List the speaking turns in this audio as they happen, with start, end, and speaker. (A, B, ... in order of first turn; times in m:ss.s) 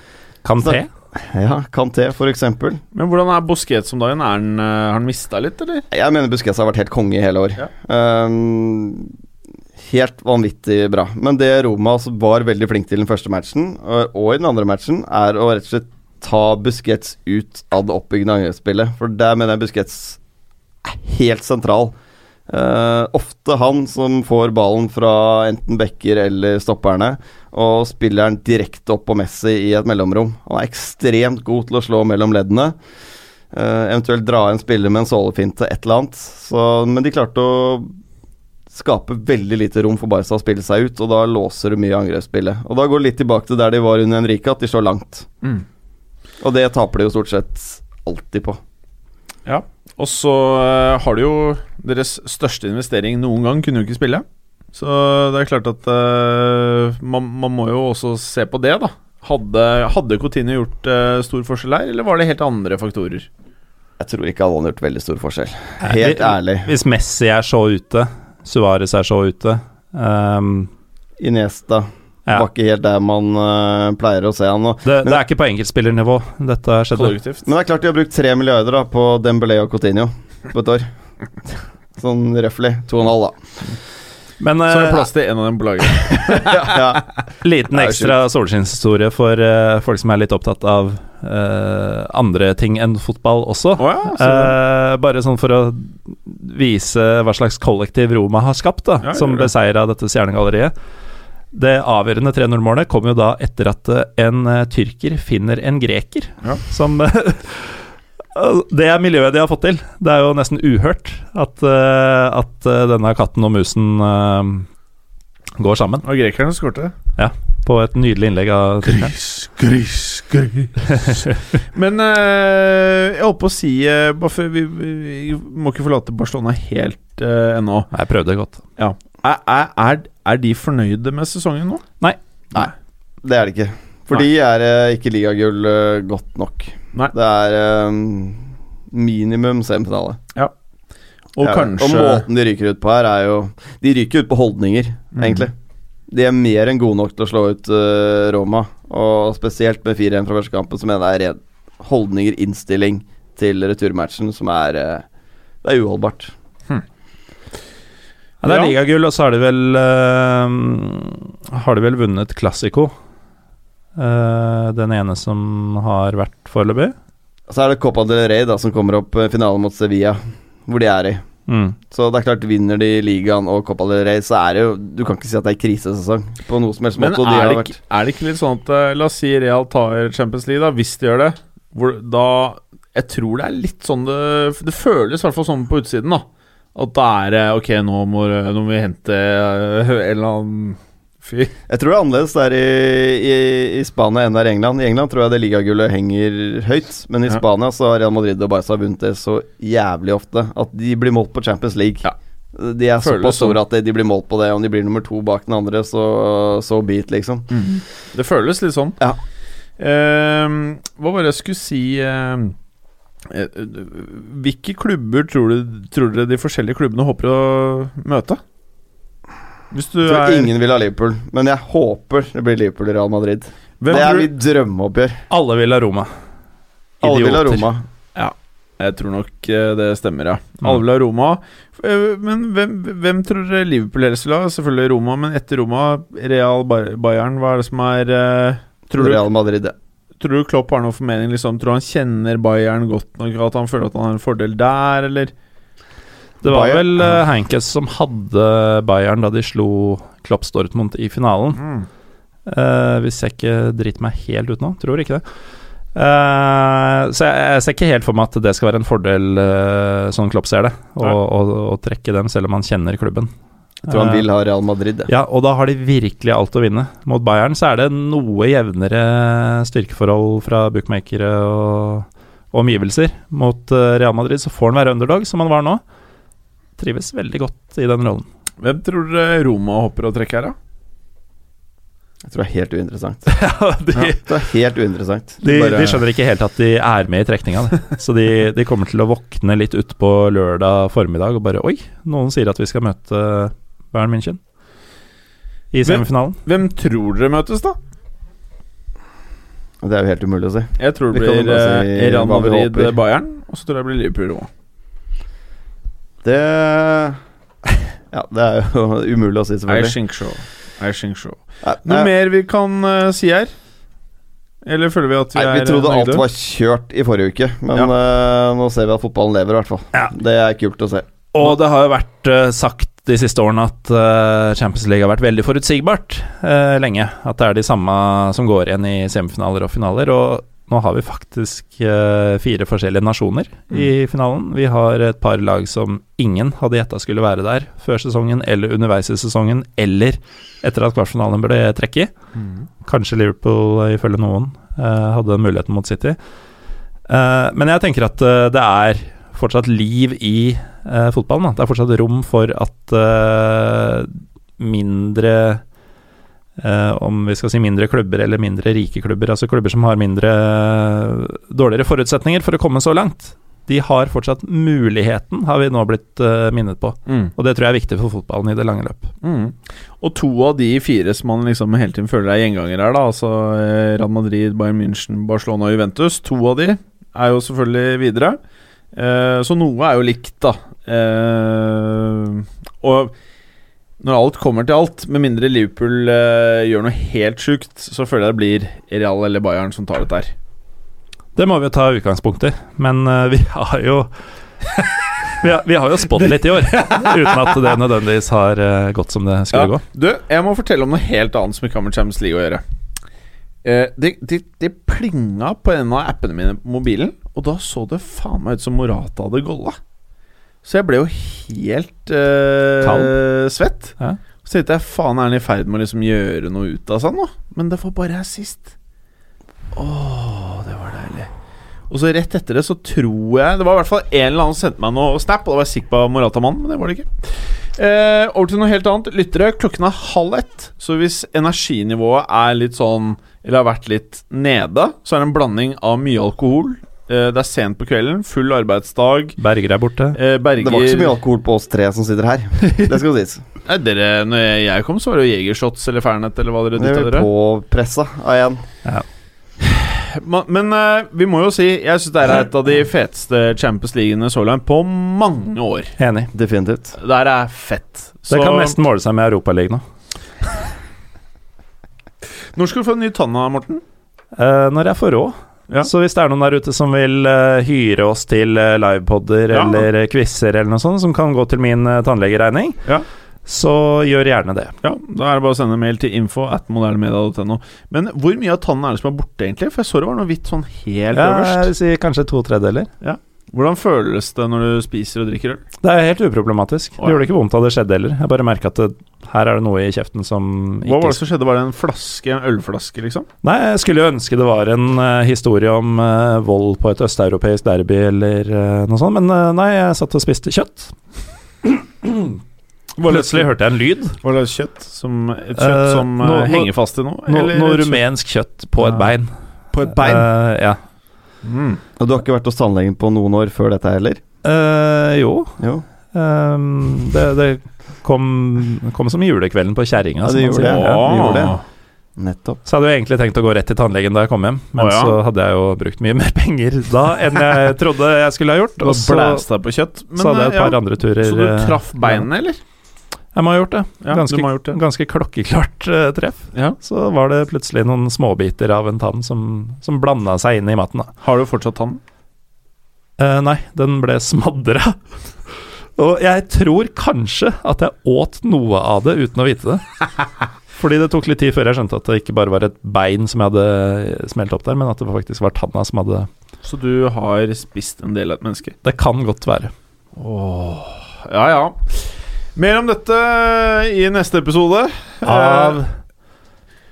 0:00.4-0:00.9 A
0:00.6-0:02.8 B
0:02.9-0:05.8 C
0:05.9-0:09.1 B
0:09.8-0:20.2 B
0:20.8-0:21.9 B
0:22.5-0:32.8 B
0:33.5-0:38.0 B
0:38.7-0:45.3 B
0:46.4-0:48.6 B
0:49.5-1:03.3 C
1:04.0-1:06.7 B
1:05.8-1:10.7 A
1:11.2-1:15.2 B
1:14.8-1:17.2 A
1:17.0-1:17.5 C
1:17.5-1:20.9 B
1:22.0-1:23.6 B
1:24.4-1:25.1 A
1:24.7-1:26.9 C
1:26.3-1:27.1 B
1:27.4-1:40.7 A
1:27.8-1:28.1 B
1:33.8-1:34.6 C
1:39.0-1:39.5 C
1:41.5-1:54.7 A
1:55.6-1:56.1 A
1:56.0-1:57.0 C
1:57.2-1:59.2 A
1:58.9-2:01.1 C
2:00.9-2:01.4 A
2:01.7-2:07.9 C
2:07.9-2:08.6 A
2:08.8-2:11.8 C
2:13.2-2:20.2 B
2:21.4-2:22.2 C
2:21.4-2:25.5 B
2:25.2-2:25.5 C
2:26.1-2:35.1 B
2:35.6-2:36.3 B
2:38.4-2:42.9 A
2:38.4-2:38.7 C
2:44.0-2:47.0 A
2:47.5-2:51.2 B
2:51.5-2:51.8 A
2:51.9-2:57.7 B
2:57.0-3:11.5 C
3:11.7-3:27.5 B
3:23.0-3:23.6 C
3:27.5-3:29.0 C
3:29.8-3:32.6 C
3:33.3-3:38.4 C
3:39.7-3:40.5 C
3:40.0-3:45.2 B
3:43.8-3:44.3 C
3:45.3-3:46.1 A
3:47.0-3:47.7 A
3:47.0-3:47.8 B
3:48.2-3:59.3 C
3:58.9-3:59.8 B
4:00.2-4:05.3 C
4:06.4-4:11.6 A
4:06.4-4:07.2 B
4:11.6-4:11.9 C
4:12.5-4:15.2 A
4:16.0-4:23.3 A
4:23.9-4:24.2 A
4:23.9-4:25.1 B
4:25.1-4:35.8 A
4:36.8-4:38.3 A
4:38.6-4:40.6 C
4:42.3-4:43.3 B
4:43.3-4:44.4 A
4:44.0-4:46.0 B
4:45.4-4:54.4 A
4:55.7-4:56.4 A
4:55.8-4:57.8 C
4:59.8-5:03.0 B
5:00.8-5:04.5 C
5:06.2-5:10.0 B
5:09.7-5:13.5 C
5:11.6-5:12.1 B
5:14.6-5:16.2 C
5:15.3-5:21.1 B
5:21.3-5:42.1 A
5:42.4-5:42.7 C
5:42.8-5:46.2 A
5:47.1-5:55.6 A
5:56.6-6:09.1 A
6:07.1-6:07.3 C
6:09.2-6:18.4 C
6:18.9-6:23.1 C
6:24.0-6:30.3 C
6:31.4-6:34.1 A
6:35.3-6:39.8 A
6:36.4-6:37.8 C
6:39.5-6:42.6 C
6:43.6-6:49.8 C
6:50.6-6:58.7 C
6:52.8-6:53.1 A
6:59.8-7:01.3 C
7:01.9-7:19.4 C
7:19.4-7:20.2 A
7:20.2-7:21.2 C
7:20.6-7:23.4 B
7:23.7-7:27.3 C
7:26.8-7:28.6 B
7:29.6-7:36.0 C
7:36.0-7:36.3 A
7:36.3-7:37.0 B
7:37.0-7:38.8 C
7:38.3-7:39.8 A
7:42.5-7:43.8 C
7:44.4-7:52.8 A
7:49.5-7:49.9 C
7:53.5-7:54.8 A
7:54.8-8:01.7 C
8:01.1-8:02.9 A
8:03.0-8:05.6 C
8:05.8-8:11.2 A
8:10.8-8:13.3 C
8:13.4-8:21.0 A
8:21.6-8:22.4 A
8:23.0-8:23.5 C
8:23.1-8:24.2 A
8:24.2-8:28.0 C
8:25.6-8:26.7 A
8:27.3-8:29.3 A
8:28.8-8:29.1 C
8:29.7-8:30.3 C
8:29.8-8:30.8 A
8:31.4-8:31.8 C
8:32.0-8:34.2 B
8:34.4-8:35.6 A
8:36.1-8:41.1 A
8:40.2-8:41.6 B
8:40.6-8:41.6 C
8:42.2-8:42.6 B
8:42.6-8:49.4 A
8:44.8-8:45.2 C
8:48.8-8:52.6 C
8:50.2-8:52.2 A
8:53.4-9:01.1 A
8:54.0-8:54.8 C
9:01.2-9:02.0 C
9:03.2-9:10.0 A
9:10.8-9:16.3 A
9:16.6-9:18.8 C
9:18.8-9:19.7 A
9:20.2-9:25.8 C
9:25.2-9:25.9 A